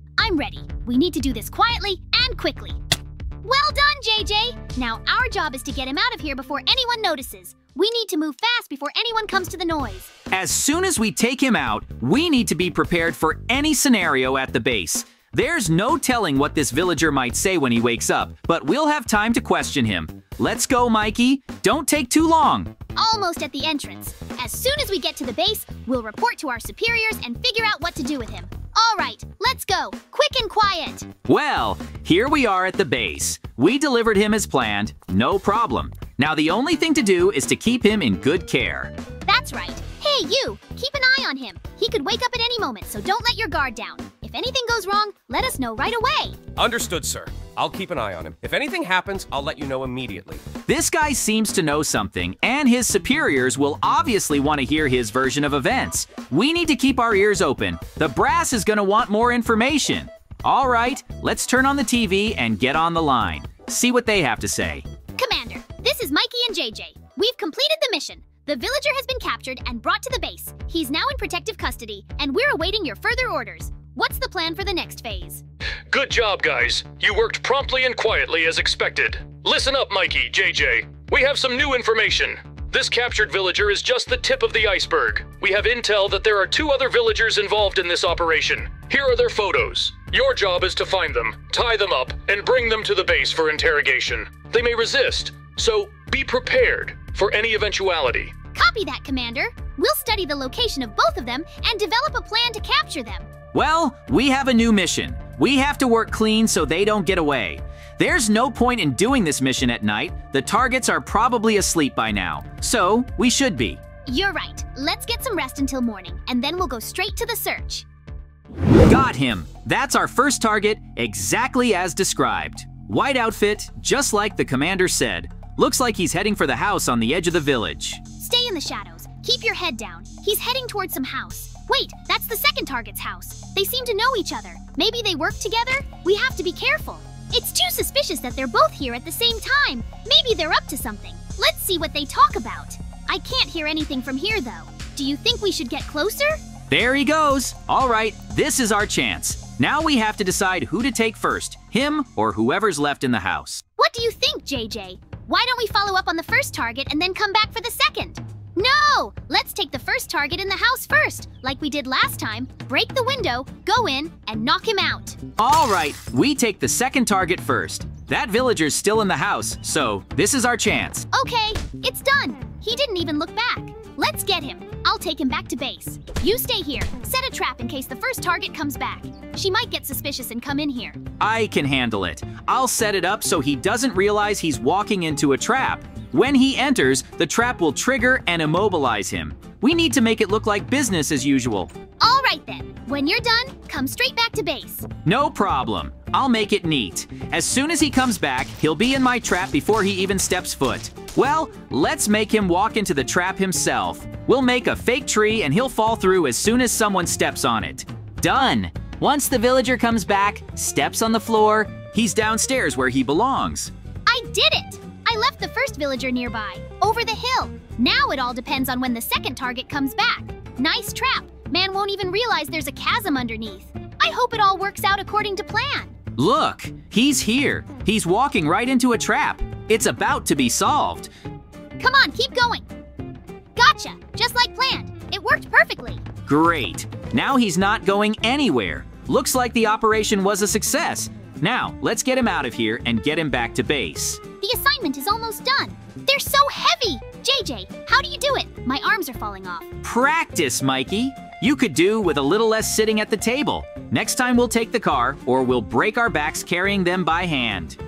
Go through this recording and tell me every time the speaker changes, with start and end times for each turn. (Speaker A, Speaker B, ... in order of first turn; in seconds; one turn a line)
Speaker A: 0.2-2.8
Speaker A: 3.4-10.1
Speaker B: 10.3-22.7
Speaker A: 22.9-31.1
Speaker B: 31.3-38.9
Speaker A: 39.3-46.4
Speaker C: 46.6-50.4
Speaker B: 50.7-64.8
Speaker A: 65.2-75.4
Speaker D: 75.9-98.3
Speaker A: 98.5-103.3
Speaker B: 103.5-113.8
Speaker A: 114.1-117.9
Speaker B: 118.9-128.0
Speaker A: 128.2-146.4
Speaker B: 146.7-153.6
Speaker A: 153.8-165.2
Speaker B: 165.4-171.1
Speaker A: 171.1-181.0
Speaker B: 181.2-191.7
Speaker A: 192.0-194.9
Speaker B: 195.1-213.7
Speaker A: 214.1-225.9
Speaker B: 226.2-231.1
Speaker A: 231.8-232.7
Speaker A: 233.6-236.0
Speaker B: 236.3-244.2
Speaker A: 244.4-249.7
Speaker B: 249.8-257.8